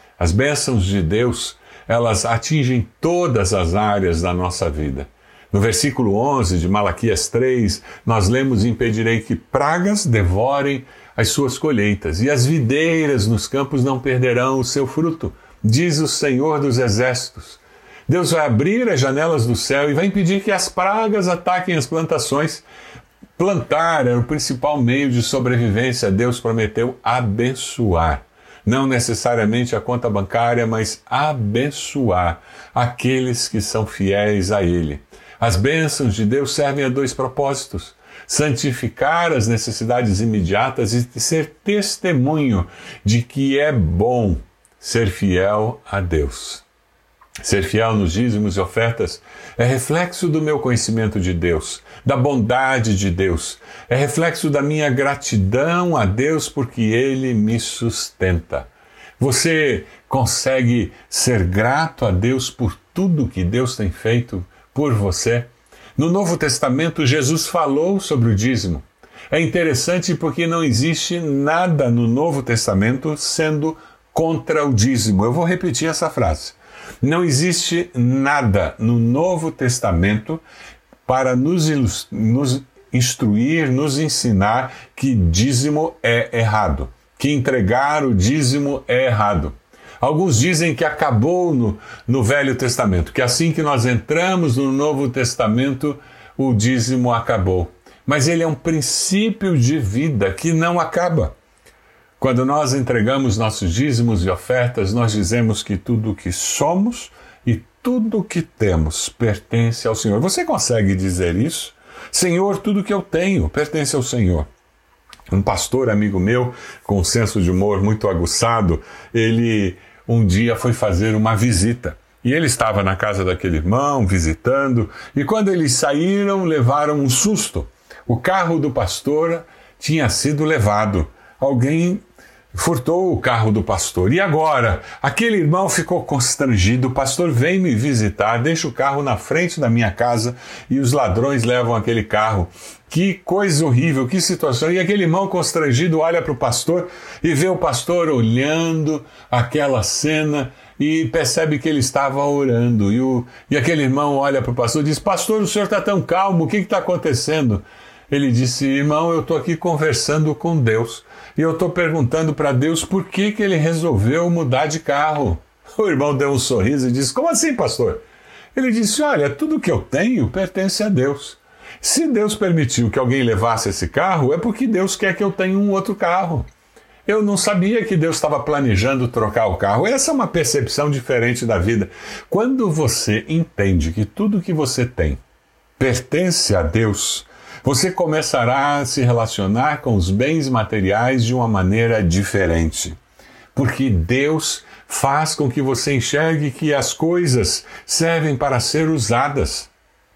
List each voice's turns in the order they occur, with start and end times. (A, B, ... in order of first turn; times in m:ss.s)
0:00.2-0:22.6 A
0:23.4-0:46.6 A
0:47.4-1:20.4 A
1:21.0-1:41.3 A
1:42.2-1:54.5 A
1:55.3-2:12.0 A
2:12.5-2:48.0 A
2:48.5-2:56.5 A
2:57.0-3:05.2 A
3:05.8-3:13.0 A
3:13.5-3:19.7 A